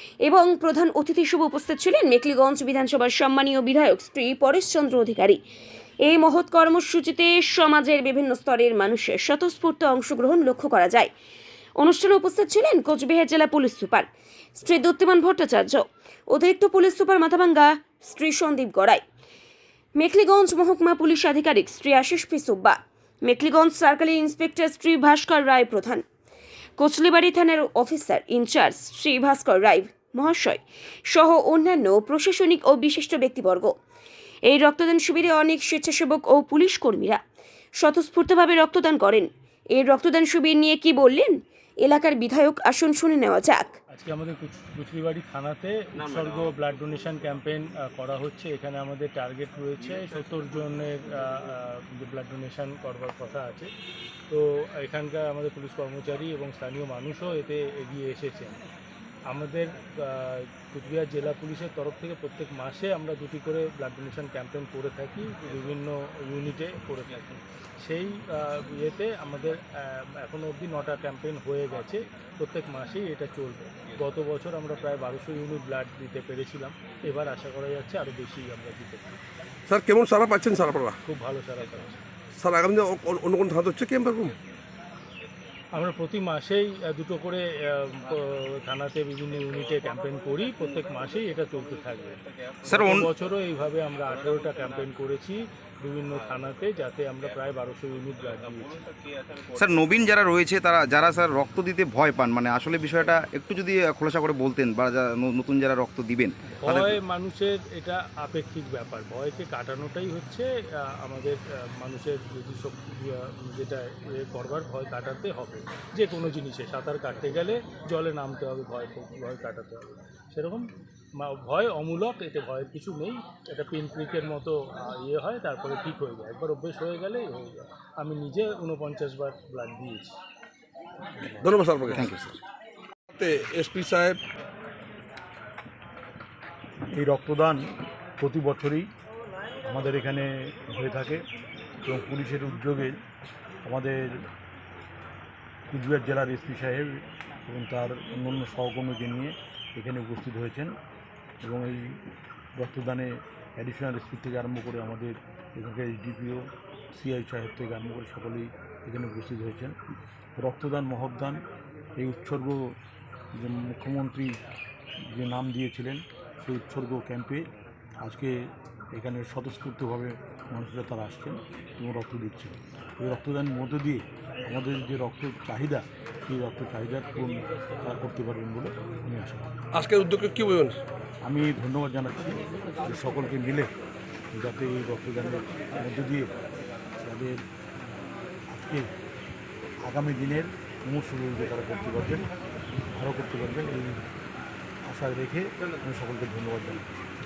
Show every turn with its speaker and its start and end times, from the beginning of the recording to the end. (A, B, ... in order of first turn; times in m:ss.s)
0:00.2-0:05.4 A
0:06.0-0:11.1 A
0:11.8-0:19.0 A
0:20.0-0:26.0 A
0:26.8-0:33.7 A
0:34.5-0:37.2 A
0:37.8-0:43.7 A
0:43.9-0:53.7 B
0:54.3-0:58.6 B
0:59.3-1:19.2 B
1:19.7-1:21.0 C
1:21.0-1:22.0 B
1:22.4-1:24.3 C
1:25.7-1:38.8 B
1:32.7-1:33.1 D
1:39.5-1:47.0 D
1:46.6-2:00.6 B
2:01.2-2:10.1 B
2:11.3-2:12.1 C
2:11.9-2:12.4 D
2:13.1-2:14.2 C
2:16.9-2:17.6 E
2:18.2-2:18.8 E
2:19.6-2:21.2 E
2:21.8-2:22.9 E
2:23.6-2:24.2 E
2:25.7-2:30.7 E
2:31.4-2:32.0 E
2:32.6-2:39.7 E
2:40.4-2:41.4 E
2:42.0-2:42.6 E
2:43.4-2:44.3 E
2:45.1-2:47.4 E
2:48.0-2:48.3 E
2:48.9-2:59.5 E
2:57.1-2:58.0 B
2:59.7-3:00.8 C
3:01.2-3:03.7 E
3:04.3-3:06.3 E
3:07.0-3:07.4 E
3:08.5-3:08.8 E
3:09.8-3:12.2 E
3:12.9-3:14.0 E
3:14.9-3:17.0 E